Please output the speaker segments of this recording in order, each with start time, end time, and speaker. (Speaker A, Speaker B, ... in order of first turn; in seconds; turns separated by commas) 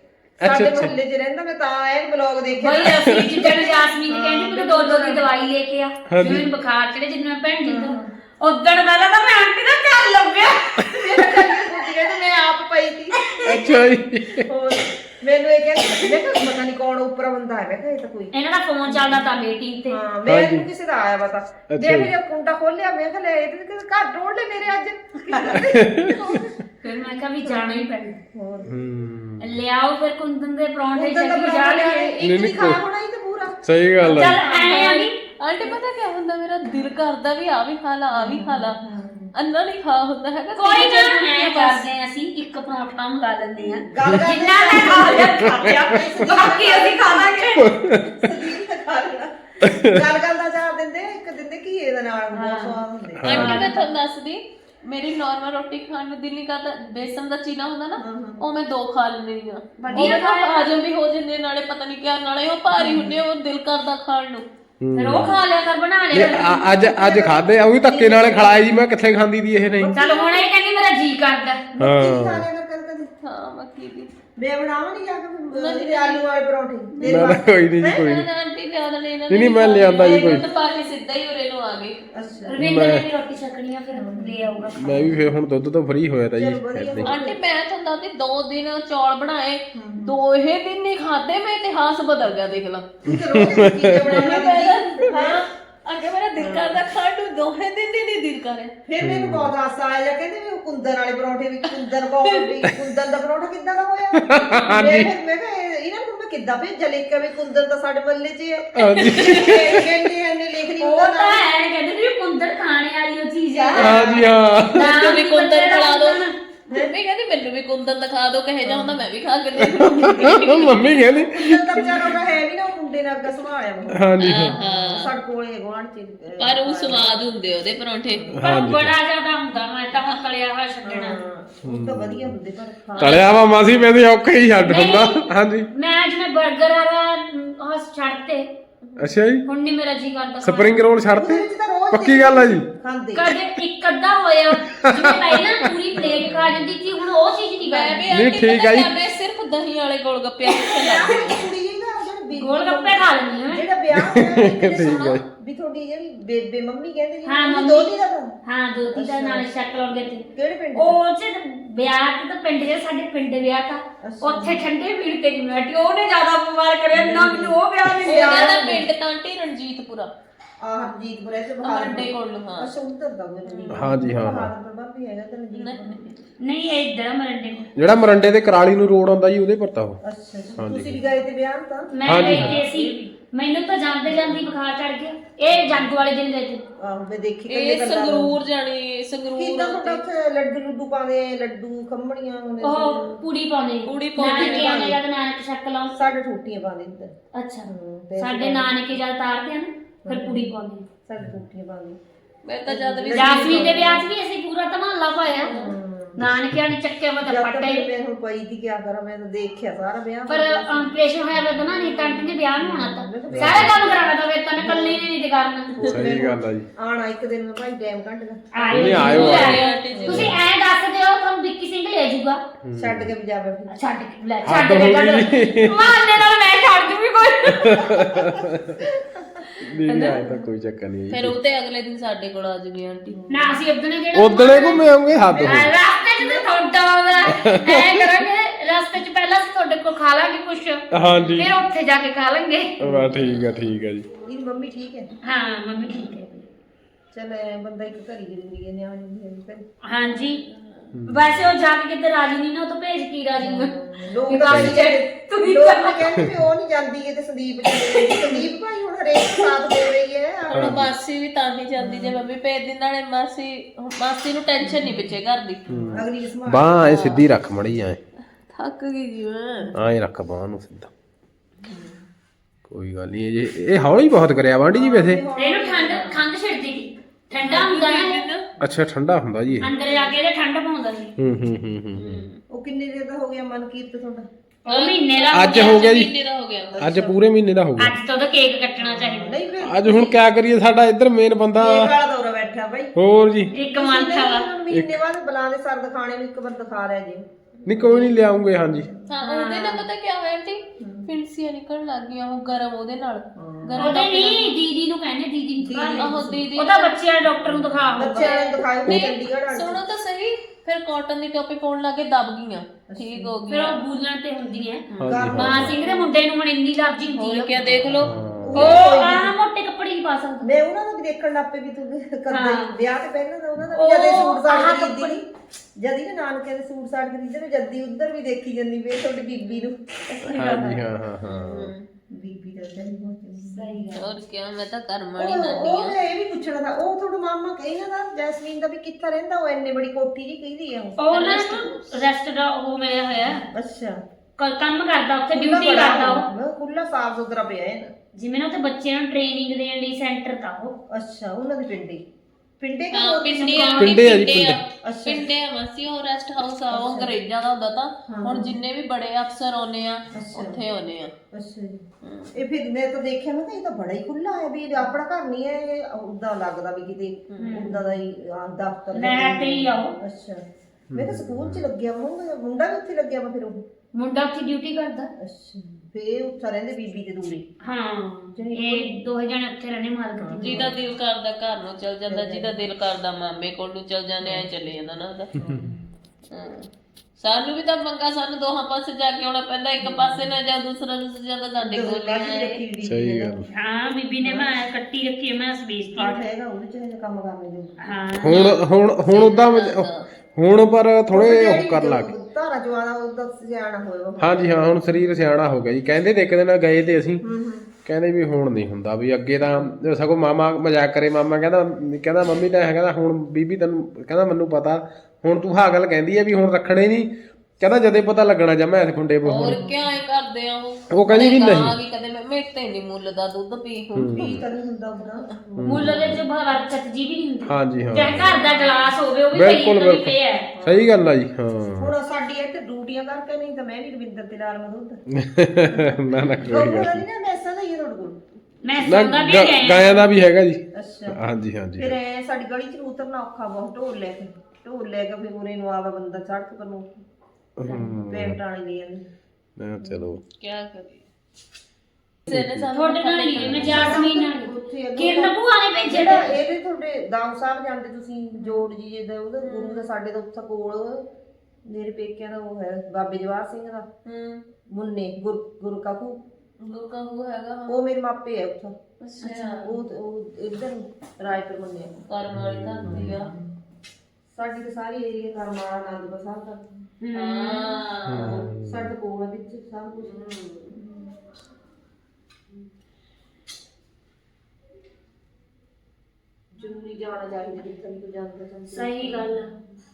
Speaker A: 0.4-0.9, Speaker B: 0.4-5.3, Speaker C: 2.6-11.8, Speaker A: 2.8-3.3, Speaker A: 6.1-6.5, Speaker B: 7.6-8.0, Speaker B: 10.9-13.4, Speaker A: 13.4-14.5, Speaker B: 14.4-18.3, Speaker C: 18.3-20.0, Speaker B: 18.9-19.2, Speaker B: 19.9-26.5, Speaker A: 20.2-20.6, Speaker A: 21.7-22.1, Speaker A: 25.5-26.4, Speaker C: 26.8-28.2, Speaker B: 27.4-28.7, Speaker A: 28.6-29.6, Speaker C: 29.4-32.1, Speaker B: 30.9-35.8, Speaker A: 32.2-32.8, Speaker A: 33.6-34.4, Speaker C: 34.0-35.2, Speaker D: 34.7-38.8, Speaker B: 38.1-39.3, Speaker D: 39.3-41.9, Speaker C: 40.5-47.7, Speaker B: 43.6-53.5, Speaker A: 44.9-46.2, Speaker A: 47.5-48.2, Speaker A: 49.6-50.0, Speaker C: 52.3-53.8, Speaker A: 53.2-53.7, Speaker D: 53.2-64.5, Speaker B: 58.0-58.4, Speaker C: 59.8-60.8, Speaker B: 62.8-63.1, Speaker A: 64.8-65.4, Speaker C: 65.0-67.3, Speaker A: 66.1-70.0, Speaker B: 67.0-68.7, Speaker B: 69.7-70.5, Speaker C: 69.9-71.7, Speaker B: 71.7-73.1, Speaker A: 71.8-72.5, Speaker D: 73.2-74.1, Speaker B: 74.4-78.1, Speaker D: 75.5-76.2, Speaker D: 76.9-77.3, Speaker A: 77.0-78.3, Speaker D: 77.9-82.0, Speaker A: 79.3-80.4, Speaker B: 80.0-80.5, Speaker B: 82.1-82.6, Speaker C: 82.5-85.2, Speaker A: 82.6-83.1, Speaker B: 83.9-85.1, Speaker A: 84.7-87.1, Speaker B: 86.3-87.4, Speaker D: 87.0-92.9, Speaker B: 89.7-90.1, Speaker B: 93.0-95.4, Speaker A: 93.1-94.2, Speaker D: 94.0-98.7, Speaker B: 96.4-96.8, Speaker B: 98.8-111.4, Speaker A: 99.0-99.5, Speaker D: 102.2-102.6, Speaker A: 104.2-105.1, Speaker A: 108.7-109.8, Speaker D: 109.0-109.6, Speaker C: 110.8-114.1, Speaker B: 113.5-114.3, Speaker A: 113.7-114.9, Speaker C: 114.7-116.3, Speaker D: 114.7-121.1, Speaker B: 116.7-116.9, Speaker B: 118.6-119.0, Speaker A: 119.8-122.0, Speaker B: 121.2-127.2, Speaker A: 123.9-124.5, Speaker D: 124.2-125.1, Speaker D: 126.4-128.3, Speaker A: 128.3-128.9, Speaker C: 128.4-131.2, Speaker B: 130.8-133.2, Speaker A: 131.6-132.3, Speaker A: 132.9-135.7, Speaker D: 133.0-133.3, Speaker C: 134.7-135.2, Speaker C: 135.7-138.5, Speaker A: 139.0-139.5, Speaker C: 139.4-140.8, Speaker A: 140.4-142.7, Speaker B: 141.1-143.3, Speaker C: 143.1-148.1, Speaker A: 144.7-145.5, Speaker B: 145.9-146.7, Speaker D: 147.6-151.4, Speaker A: 148.1-148.9, Speaker B: 150.6-158.3, Speaker C: 152.4-153.7, Speaker A: 153.9-155.2, Speaker D: 154.8-155.2, Speaker C: 157.2-157.9, Speaker C: 158.4-168.7, Speaker B: 158.9-159.5, Speaker B: 160.3-161.0, Speaker B: 164.0-164.6, Speaker B: 166.9-168.9, Speaker D: 168.0-170.1, Speaker B: 170.6-176.1, Speaker D: 171.6-172.7, Speaker A: 173.7-174.5, Speaker D: 175.6-176.2, Speaker C: 176.4-177.7, Speaker A: 177.7-180.0, Speaker B: 180.0-182.9, Speaker A: 180.5-181.0, Speaker C: 181.9-186.6, Speaker A: 182.0-182.6, Speaker D: 182.3-182.6, Speaker B: 184.1-184.5, Speaker B: 186.8-188.4, Speaker D: 187.5-190.0, Speaker B: 189.3-193.2, Speaker C: 192.6-196.0, Speaker D: 193.8-194.9, Speaker B: 194.2-195.0, Speaker B: 195.9-198.7, Speaker C: 197.3-197.7, Speaker C: 198.2-200.8, Speaker B: 200.0-200.4, Speaker B: 201.0-202.0, Speaker D: 202.4-204.0, Speaker B: 202.7-204.1, Speaker C: 203.1-207.8, Speaker B: 205.4-206.2, Speaker A: 206.2-206.7, Speaker B: 207.2-215.1, Speaker C: 210.3-215.7, Speaker A: 213.3-213.7, Speaker B: 215.7-220.4, Speaker A: 215.8-216.7, Speaker C: 218.5-222.4, Speaker A: 218.7-220.3, Speaker D: 218.8-220.4, Speaker A: 222.6-223.1, Speaker B: 222.7-223.7, Speaker C: 223.7-228.3, Speaker A: 224.4-226.2, Speaker A: 227.5-228.8, Speaker A: 229.6-231.3, Speaker D: 230.0-230.2, Speaker D: 231.1-233.2, Speaker B: 233.1-233.6, Speaker C: 233.3-234.8, Speaker A: 234.1-235.7, Speaker B: 235.2-236.5, Speaker C: 235.4-242.8, Speaker A: 237.3-237.9, Speaker A: 240.9-241.6, Speaker A: 242.8-244.1, Speaker B: 242.8-243.5, Speaker B: 244.1-245.1, Speaker C: 245.2-246.3, Speaker B: 247.1-249.6, Speaker C: 249.8-250.4, Speaker D: 250.1-250.9, Speaker A: 250.9-251.5, Speaker C: 251.1-256.2, Speaker B: 253.4-260.9, Speaker A: 254.4-254.8, Speaker D: 260.5-265.9, Speaker A: 260.5-260.8, Speaker B: 261.8-262.2, Speaker B: 264.6-265.1, Speaker A: 265.7-268.0, Speaker B: 265.9-266.8, Speaker D: 266.8-267.2, Speaker D: 268.5-269.7, Speaker A: 269.7-270.9, Speaker D: 271.6-271.9, Speaker A: 272.7-275.2, Speaker B: 274.7-276.2, Speaker C: 275.4-278.2, Speaker D: 277.3-278.5, Speaker A: 278.6-279.7, Speaker B: 279.6-280.2, Speaker C: 279.6-281.1, Speaker A: 281.2-282.2, Speaker D: 281.9-282.4, Speaker B: 282.5-284.3, Speaker C: 284.6-285.9, Speaker D: 284.7-286.8, Speaker A: 285.3-286.1, Speaker B: 286.7-287.2, Speaker A: 286.8-287.9, Speaker C: 287.8-289.4, Speaker B: 288.8-290.2, Speaker A: 289.6-291.9, Speaker B: 291.6-292.9, Speaker A: 292.9-293.5, Speaker B: 293.5-298.1, Speaker C: 293.5-294.5, Speaker A: 294.7-295.0, Speaker A: 297.6-298.9, Speaker B: 298.7-299.0, Speaker D: 299.1-304.6, Speaker C: 299.2-299.8, Speaker B: 300.8-301.1, Speaker B: 303.4-304.0, Speaker C: 303.8-308.4, Speaker B: 305.6-306.4, Speaker D: 305.9-307.0, Speaker B: 307.5-309.8, Speaker D: 308.0-313.8, Speaker B: 312.9-313.3, Speaker C: 313.5-318.0, Speaker B: 314.9-316.1, Speaker A: 315.0-315.8, Speaker D: 317.1-318.1, Speaker B: 317.8-319.3, Speaker A: 317.9-318.8, Speaker C: 318.5-320.5, Speaker B: 320.4-325.3, Speaker C: 322.3-322.7, Speaker C: 323.7-325.2, Speaker B: 325.8-334.0, Speaker A: 330.2-331.7, Speaker C: 330.3-330.8, Speaker D: 331.3-331.9, Speaker C: 333.5-334.0, Speaker D: 333.9-336.0, Speaker B: 335.2-341.0, Speaker C: 341.0-343.4, Speaker D: 341.1-342.0, Speaker B: 343.5-344.0, Speaker C: 344.4-346.2, Speaker B: 345.3-347.9, Speaker C: 348.1-350.7, Speaker B: 350.9-352.0, Speaker B: 352.6-353.8, Speaker D: 352.9-361.1, Speaker C: 353.4-354.1, Speaker A: 353.8-354.6, Speaker B: 354.8-355.3, Speaker B: 356.7-357.1, Speaker B: 358.1-358.5, Speaker B: 360.1-360.6, Speaker B: 361.3-370.4, Speaker D: 362.0-362.3, Speaker D: 367.3-367.8, Speaker C: 367.4-367.8, Speaker C: 368.9-369.9, Speaker A: 370.9-371.7, Speaker B: 370.9-373.6, Speaker C: 373.9-375.1, Speaker B: 375.2-377.4, Speaker C: 377.6-380.7, Speaker B: 378.3-379.1, Speaker B: 380.2-380.8, Speaker D: 380.4-385.5, Speaker B: 382.1-382.5, Speaker B: 384.2-384.5, Speaker B: 385.4-385.8, Speaker D: 386.3-392.6, Speaker B: 389.8-390.3, Speaker B: 391.6-393.4, Speaker A: 392.8-393.5, Speaker C: 393.5-396.2, Speaker B: 394.2-394.5, Speaker B: 395.9-397.9, Speaker C: 397.8-398.4, Speaker A: 398.2-402.1, Speaker D: 398.2-400.1, Speaker B: 401.1-404.7, Speaker A: 404.2-407.2, Speaker B: 407.2-407.7, Speaker A: 407.8-419.6, Speaker D: 419.2-424.4, Speaker B: 419.4-419.9, Speaker A: 420.9-421.8, Speaker A: 423.9-424.4, Speaker B: 424.1-426.1, Speaker A: 425.6-426.2, Speaker C: 425.6-430.5, Speaker A: 427.4-428.4, Speaker D: 428.0-428.8, Speaker A: 429.3-431.9, Speaker B: 430.5-430.9, Speaker B: 431.8-435.0, Speaker A: 435.1-437.0, Speaker B: 435.7-438.2, Speaker C: 438.6-440.1, Speaker A: 438.8-441.9, Speaker B: 440.7-441.2, Speaker B: 441.8-447.0, Speaker A: 447.6-448.4, Speaker B: 447.6-449.0, Speaker A: 449.6-450.2, Speaker D: 450.3-451.1, Speaker A: 452.3-452.7, Speaker D: 452.3-454.0, Speaker C: 452.7-456.3, Speaker B: 453.5-455.3, Speaker B: 455.9-461.1, Speaker D: 459.4-459.9, Speaker B: 461.6-463.9, Speaker D: 464.0-464.4, Speaker B: 464.7-466.2, Speaker D: 466.6-467.8, Speaker B: 467.7-468.8, Speaker D: 469.0-469.7, Speaker C: 469.2-469.6, Speaker B: 469.5-472.0, Speaker D: 472.1-473.3, Speaker A: 472.3-473.1, Speaker B: 472.8-473.4, Speaker B: 474.3-476.7, Speaker C: 477.0-477.8, Speaker D: 477.1-478.4, Speaker A: 478.1-478.9, Speaker B: 478.1-480.8, Speaker D: 480.0-480.5, Speaker B: 486.5-489.5, Speaker C: 488.7-489.5